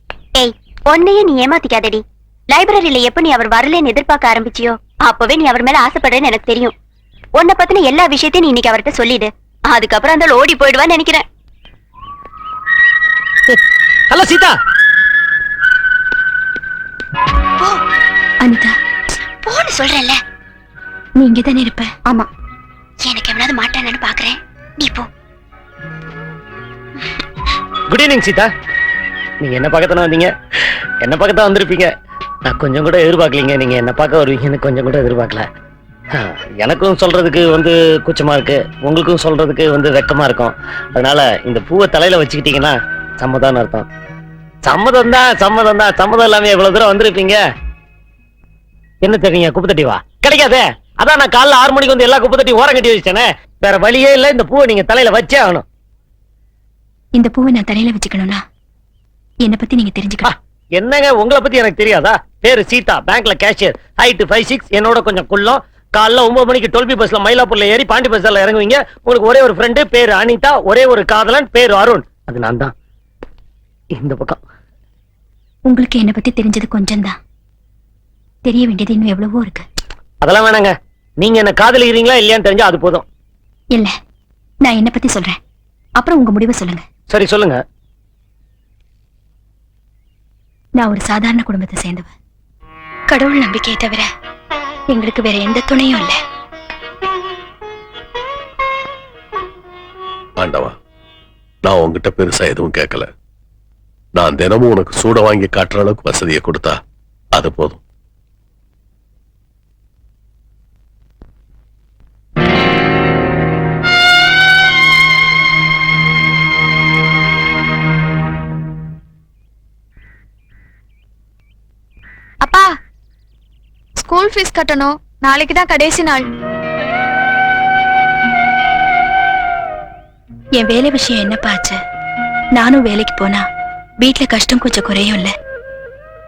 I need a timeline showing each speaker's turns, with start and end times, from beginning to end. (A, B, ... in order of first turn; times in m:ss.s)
0:00.4-0:06.7 A
0:07.4-0:11.2 A
0:14.1-0:14.6 B
0:18.4-0:18.7 C
0:19.4-0:20.2 A
0:21.2-0:21.9 C
0:23.0-0:25.1 A
0:27.9-0:28.5 B
0:29.4-0:30.3 B
0:31.0-0:31.9 B
0:32.4-0:35.5 B
0:36.2-0:43.8 B
0:44.6-0:47.4 B
0:49.0-0:55.6 B
0:57.1-0:58.4 C
0:59.4-1:00.3 C
1:00.2-1:12.7 B
1:13.9-1:14.4 B
1:15.7-1:17.2 C
1:18.4-1:19.6 C
1:20.2-1:23.0 B
1:24.6-1:25.4 C
1:26.0-1:26.8 C
1:27.1-1:27.6 B
1:30.8-1:32.1 C
1:33.1-1:34.0 C
1:34.9-1:36.1 C
1:40.4-1:40.8 D
1:41.6-1:43.1 D
1:44.1-1:46.8 D
1:47.3-1:47.8 D
2:02.4-2:02.7 E
2:04.0-2:06.2 E
2:10.6-2:11.8 C
2:12.6-2:13.4 C
2:14.0-2:15.3 C